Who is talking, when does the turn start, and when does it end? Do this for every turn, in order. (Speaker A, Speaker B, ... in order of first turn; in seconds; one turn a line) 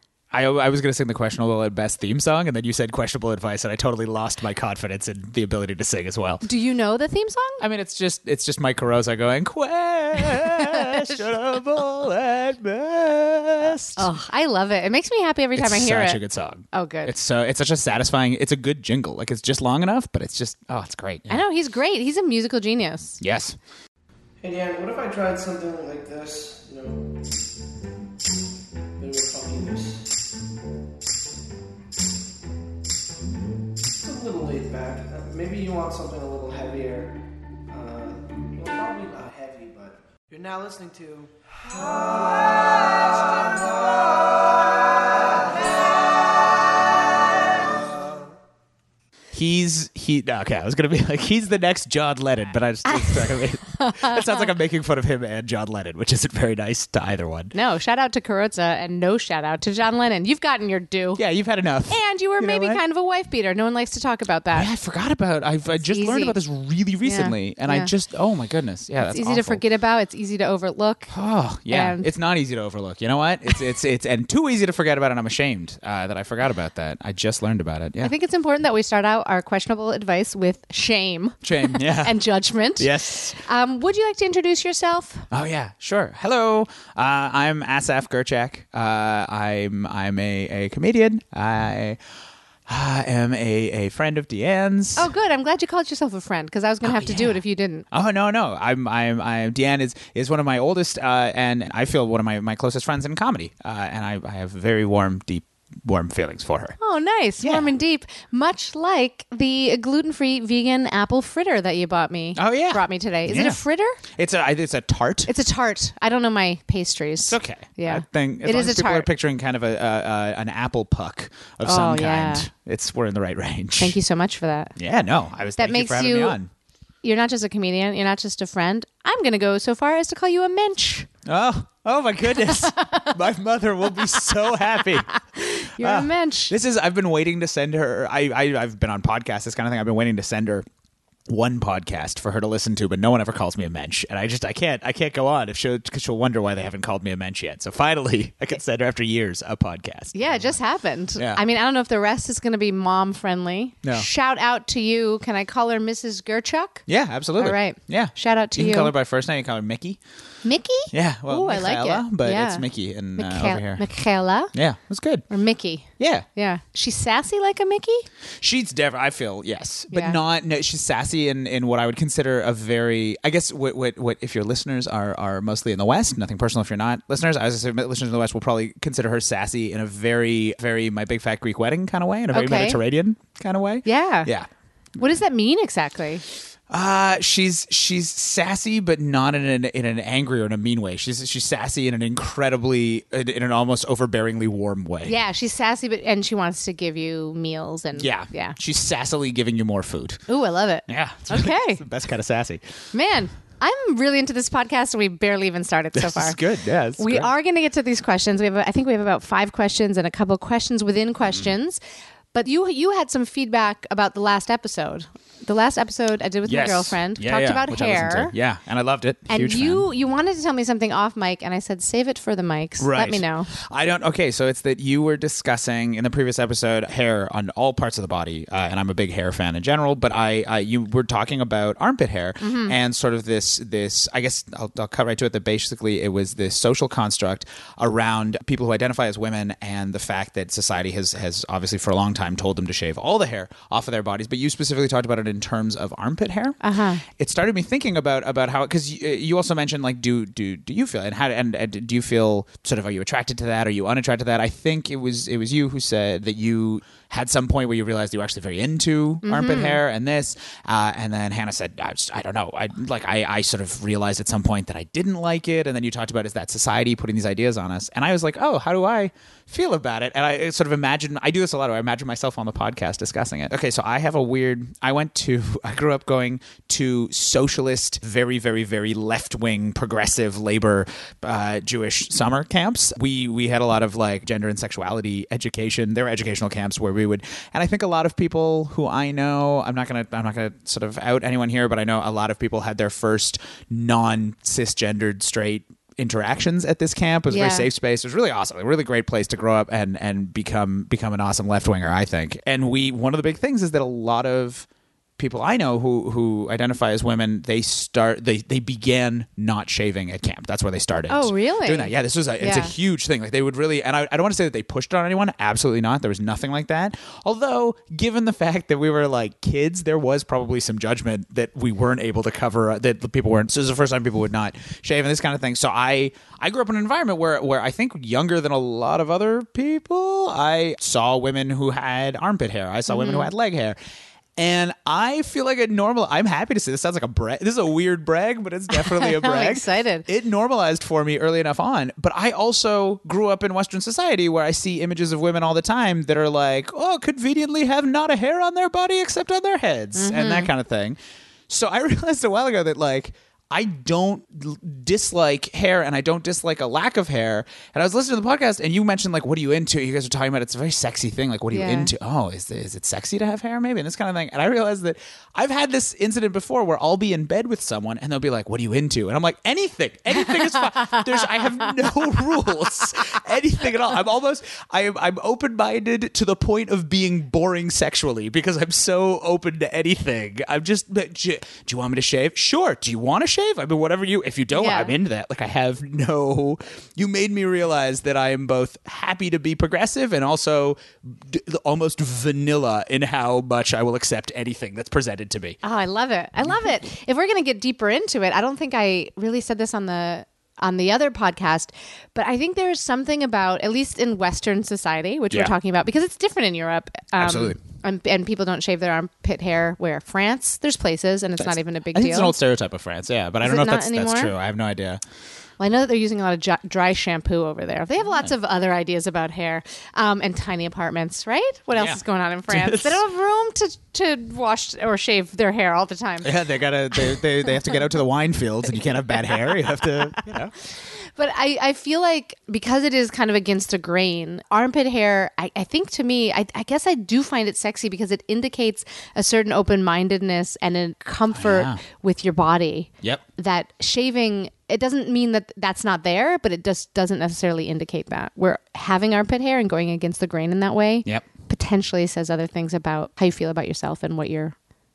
Speaker A: 0.3-6.4
Speaker B: 6.4-7.6
Speaker A: 7.6-14.1
Speaker B: 10.4-10.9
Speaker B: 13.9-16.2
Speaker A: 15.6-21.4
Speaker B: 16.7-17.1
Speaker B: 21.3-23.2
Speaker A: 23.2-23.6
Speaker C: 24.4-27.3
Speaker C: 29.0-30.1
Speaker C: 33.9-46.3
Speaker C: 47.5-48.2
Speaker A: 49.3-57.5
Speaker B: 52.9-54.5
Speaker B: 57.5-61.2
Speaker A: 61.1-62.8
Speaker B: 61.9-64.7
Speaker A: 64.5-69.6
Speaker B: 65.7-66.3
Speaker B: 67.0-67.9
Speaker B: 69.0-71.1
Speaker A: 71.1-78.1
Speaker B: 71.7-72.1
Speaker B: 78.0-85.2
Speaker A: 81.4-82.2
Speaker A: 82.8-83.4
Speaker A: 85.3-92.0
Speaker A: 92.7-95.1
Speaker B: 95.0-97.8
Speaker A: 96.8-106.8
Speaker B: 106.8-114.0
Speaker A: 107.4-107.7
Speaker A: 112.3-115.3
Speaker B: 115.3-119.1
Speaker A: 117.2-124.0
Speaker B: 121.6-122.5
Speaker B: 123.8-124.7
Speaker A: 124.8-126.5
Speaker B: 125.6-126.4
Speaker B: 127.0-131.1
Speaker A: 131.2-140.7
Speaker B: 132.7-133.1
Speaker B: 135.1-136.5
Speaker A: 141.3-150.5
Speaker B: 150.1-156.8
Speaker A: 156.9-160.0
Speaker B: 157.4-158.9
Speaker B: 160.4-162.6
Speaker A: 160.9-163.8
Speaker B: 163.2-164.5
Speaker A: 164.5-165.3
Speaker B: 165.3-168.1
Speaker A: 166.0-166.2
Speaker A: 168.4-184.5
Speaker B: 169.9-170.2
Speaker B: 182.3-182.8
Speaker B: 183.8-184.3
Speaker B: 185.0-186.2
Speaker A: 186.7-195.1
Speaker B: 195.1-198.6
Speaker A: 197.9-200.2
Speaker B: 200.3-201.8
Speaker A: 200.9-202.6
Speaker B: 202.9-206.4
Speaker A: 205.9-207.3
Speaker B: 207.0-211.8
Speaker B: 212.3-218.3
Speaker A: 216.4-219.8
Speaker B: 219.3-223.5
Speaker A: 222.8-304.7
Speaker B: 232.4-232.7
Speaker B: 246.6-247.0
Speaker B: 259.2-259.8
Speaker B: 297.3-297.7
Speaker A: 305.2-333.8
Speaker B: 311.1-312.7
Speaker B: 332.9-333.3
Speaker A: 334.4-351.0
Speaker B: 338.7-340.1
Speaker B: 349.9-350.5
Speaker A: 351.5-395.6
Speaker B: 361.5-361.9
Speaker B: 384.5-384.9
Speaker B: 395.6-412.4
Speaker A: 407.1-407.6
Speaker A: 411.4-415.0
Speaker B: 413.4-414.3
Speaker B: 415.6-426.3
Speaker A: 421.7-423.0
Speaker A: 426.2-430.5
Speaker B: 431.0-454.5
Speaker A: 441.3-441.8